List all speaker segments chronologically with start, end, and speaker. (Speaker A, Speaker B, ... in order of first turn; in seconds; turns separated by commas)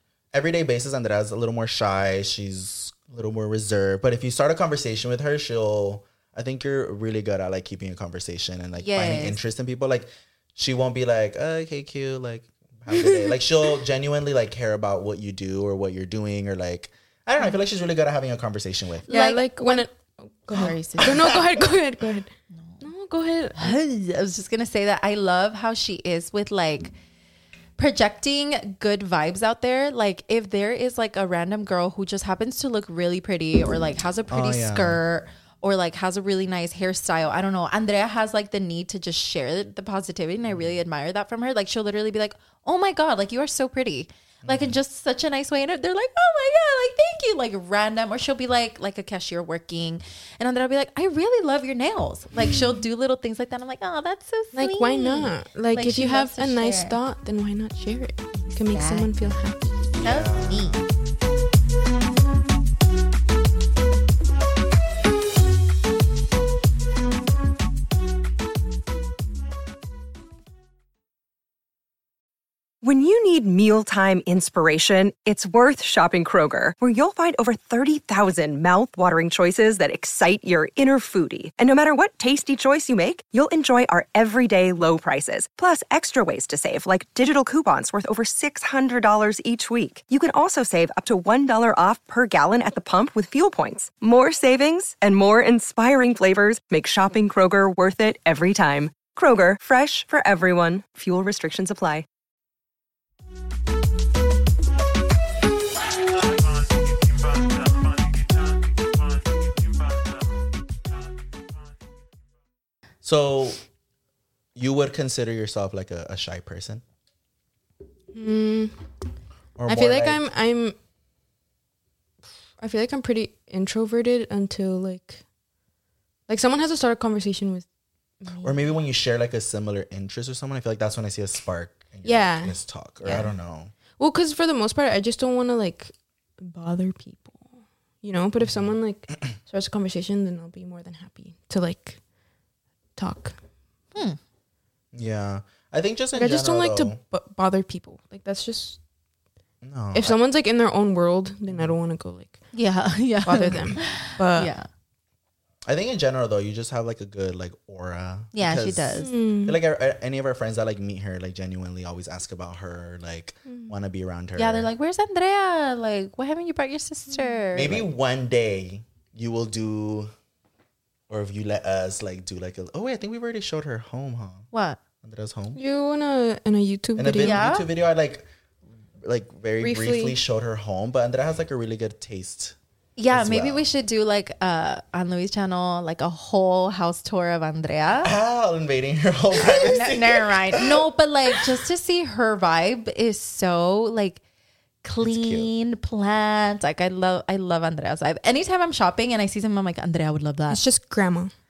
Speaker A: 0.3-19.1, Speaker B: 8.8-9.4, Speaker B: 19.1-19.9, Speaker C: 19.1-22.3, Speaker B: 20.5-21.4, Speaker B: 22.5-22.8, Speaker C: 22.8-23.8, Speaker B: 23.6-26.9, Speaker B: 27.8-57.0, Speaker A: 34.3-35.0, Speaker A: 40.5-40.8, Speaker A: 44.4-44.8, Speaker C: 54.5-60.0, Speaker B: 58.7-59.1, Speaker B: 60.0-60.8, Speaker A: 60.0-60.9, Speaker D: 72.8-102.1, Speaker A: 113.0-113.6, Speaker A: 114.5-116.8, Speaker C: 118.1-118.8, Speaker A: 119.6-120.2, Speaker C: 119.7-120.8, Speaker C: 122.6-125.2, Speaker C: 126.3-127.7, Speaker C: 128.2-128.7, Speaker A: 128.4-133.7, Speaker C: 132.1-133.3, Speaker C: 134.0-142.0, Speaker A: 138.4-138.8, Speaker C: 143.0-143.4, Speaker A: 144.9-147.0, Speaker C: 146.1-148.8, Speaker A: 149.6-150.2, Speaker C: 149.9-152.4, Speaker A: 151.5-151.7, Speaker B: 152.5-154.7, Speaker C: 153.2-154.5, Speaker A: 155.7-164.7, Speaker B: 158.3-159.1, Speaker C: 159.0-159.6, Speaker C: 163.5-163.7, Speaker B: 164.4-167.9, Speaker C: 167.1-167.4, Speaker A: 167.5-170.1, Speaker A: 171.1-174.5, Speaker B: 174.5-174.8, Speaker A: 175.0-175.6, Speaker C: 175.6-177.5, Speaker A: 177.0-178.3, Speaker B: 177.2-177.7, Speaker A: 179.0-182.6, Speaker C: 179.6-180.2, Speaker B: 183.0-188.1, Speaker A: 183.1-183.6, Speaker A: 188.0-191.5, Speaker B: 189.4-194.2, Speaker B: 194.8-200.6, Speaker A: 195.0-195.5, Speaker C: 200.5-201.3